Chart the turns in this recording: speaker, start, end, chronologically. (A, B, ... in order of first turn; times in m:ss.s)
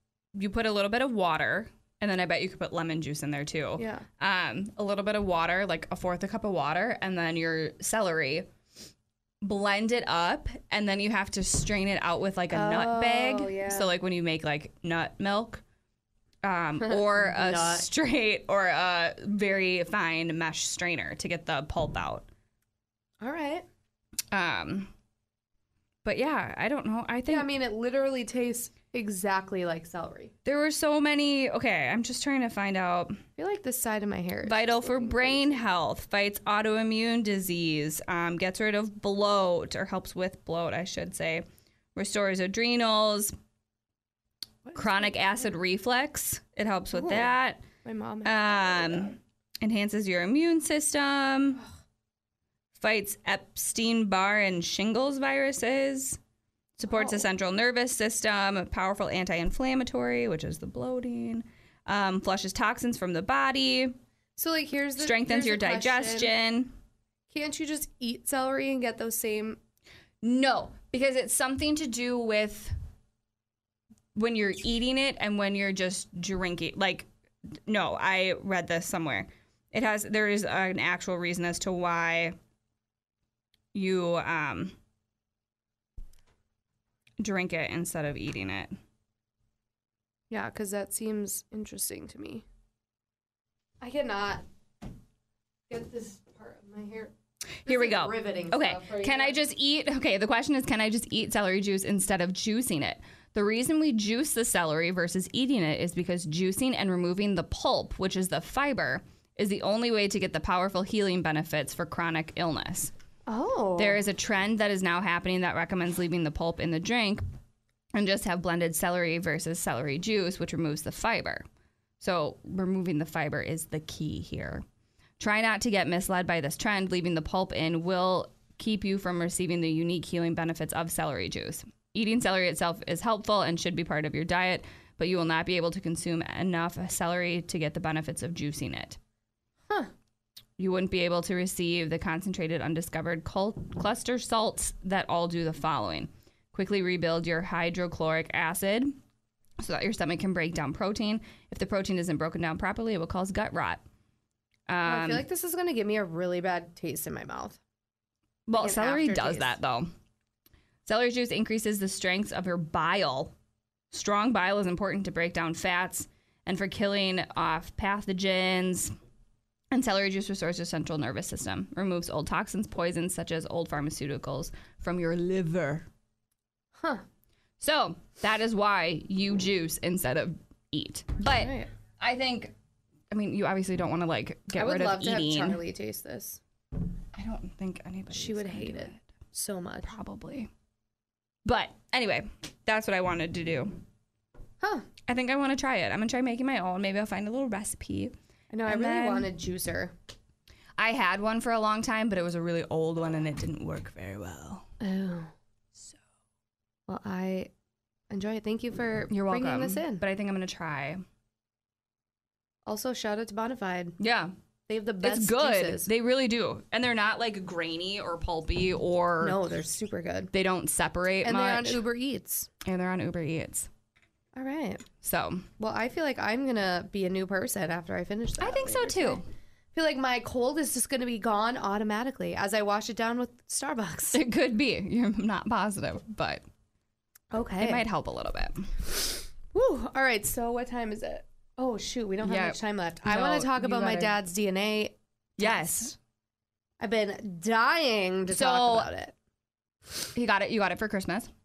0:00.4-0:08.5 A
0:03.8-0:04.1 B
0:09.4-0:15.6 A
0:12.5-0:13.9 B
0:16.4-0:22.3 A
0:16.8-0:17.9 B
0:23.2-0:23.7 B
0:24.3-0:24.9 A
0:26.0-0:27.5 A
0:27.3-0:30.3 B
0:30.4-0:33.2 A
0:33.4-0:35.6 B
0:34.4-0:43.3 A
0:44.6-0:45.4 B
0:44.8-0:47.6 A
0:46.9-0:47.3 B
0:47.8-0:49.2 B
0:48.2-0:51.6 A
0:52.8-0:56.2 A
0:56.8-1:04.0 A
0:56.9-0:57.2 B
1:04.4-1:06.3 B
1:05.0-1:06.7 A
1:07.3-1:09.6 B
1:10.2-1:12.7 A
1:14.2-1:17.1 A
1:17.7-1:22.4 A
1:23.7-1:24.7 A
1:27.2-1:28.7 A
1:30.3-1:32.4 B
1:33.8-1:34.4 B
1:35.7-1:37.1 B
1:37.6-1:39.4 B
1:37.6-1:52.9 A
1:53.3-1:54.0 B
1:53.8-1:57.2 A
1:57.9-2:01.4 A
2:02.0-2:04.6 A
2:05.2-2:19.0 A
2:20.6-2:29.0 A
2:29.6-2:33.8 A
2:34.7-2:35.2 A
2:34.8-2:37.6 B
2:38.5-2:39.9 A
2:38.5-2:39.6 B
2:40.9-2:43.3 A
2:43.9-2:48.9 A
2:49.7-2:55.9 A
2:56.8-2:57.0 B
2:57.6-3:02.5 A
3:01.4-3:01.7 B
3:03.1-3:05.6 A
3:04.6-3:06.4 B
3:07.1-3:09.0 A
3:08.1-3:09.9 B
3:09.8-3:10.5 A
3:11.4-3:13.8 A
3:14.6-3:14.9 B
3:15.1-3:18.1 A
3:18.5-3:19.9 B
3:18.7-3:19.3 A
3:20.8-3:24.6 A
3:24.8-3:25.3 B
3:26.9-3:27.5 B
3:28.1-3:30.0 B
3:29.1-3:31.0 A
3:32.7-3:34.0 B
3:34.0-3:34.3 A
3:34.7-3:35.9 B
3:35.0-3:39.4 A
3:39.2-3:40.3 B
3:40.3-3:41.8 A
3:41.2-3:42.5 B
3:42.6-3:43.7 A
3:44.4-3:44.9 B
3:45.0-3:45.5 A
3:45.6-3:54.2 B
3:48.4-3:49.2 A
3:54.1-3:56.4 A
3:57.3-3:57.8 B
3:57.6-3:58.7 A
3:59.5-4:05.9 B
4:02.2-4:04.1 A
4:05.4-4:06.0 A
4:06.8-4:09.1 B
4:08.3-4:08.9 A
4:10.2-4:11.3 A